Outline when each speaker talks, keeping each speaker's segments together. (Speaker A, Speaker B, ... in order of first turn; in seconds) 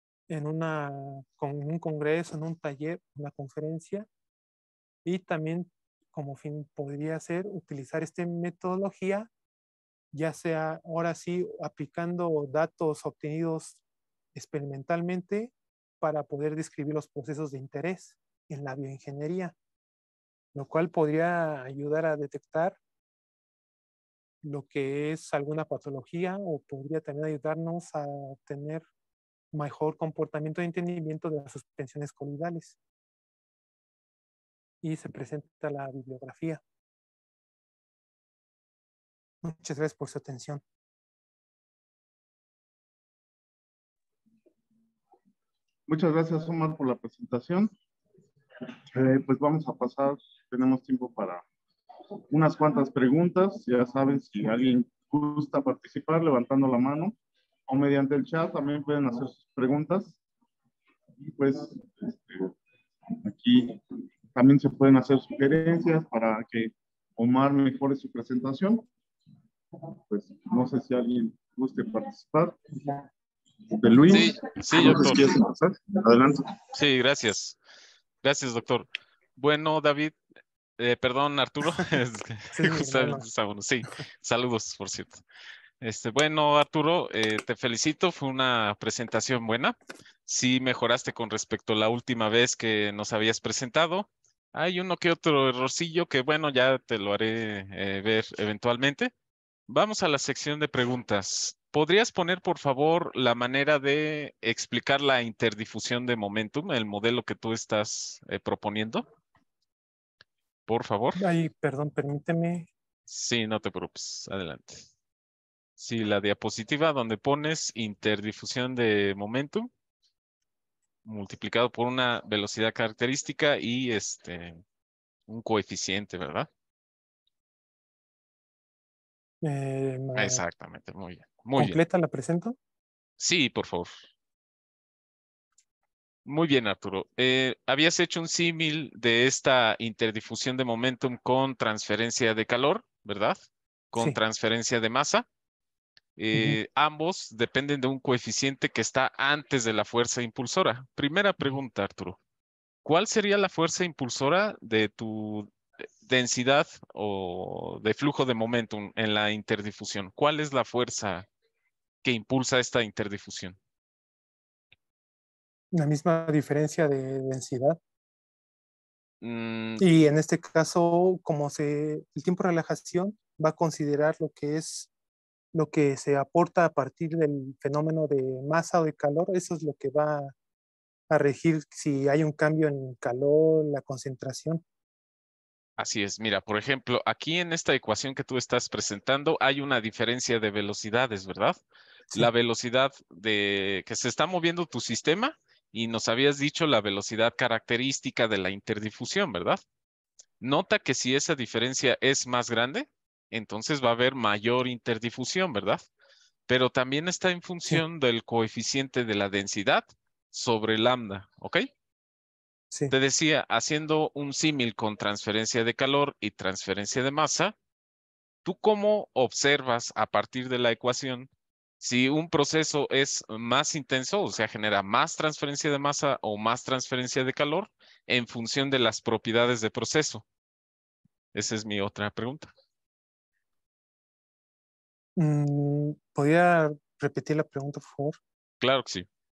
Speaker A: 0.3-4.1, 5.0-9.3, 10.1-13.8, 14.3-19.6, 20.5-22.8, 24.4-28.9, 29.5-32.8, 34.8-36.6, 39.4-40.6, 82.5-83.3, 111.2-112.7, 129.4-130.4, 131.6-132.6, 146.3-146.6, 165.7-167.8, 169.8-174.9, 175.5-180.3, 181.1-184.6, 235.2-238.2
Speaker B: 45.9-47.7, 48.9-51.4, 52.3-57.1, 57.7-60.2, 61.2-62.5, 63.2-63.8, 64.3-68.9, 70.1-73.0, 73.7-76.5
Speaker C: 74.1-75.2, 76.7-77.6, 78.2-80.2, 80.8-85.2, 85.8-89.8, 90.3-99.1, 99.7-109.0, 110.7-111.2, 113.1-114.8, 115.8-119.7, 121.0-124.6, 125.3-126.5, 130.2-131.8, 133.2-133.9, 136.2-143.4, 143.9-145.3, 146.2-152.2, 152.8-155.5, 156.0-161.3, 162.0-163.6, 169.2-170.0, 185.8-191.6, 192.1-199.6, 200.4-205.8, 206.5-211.7, 212.9-217.6, 218.4-221.3, 221.8-230.2, 231.3-232.5, 238.6-239.1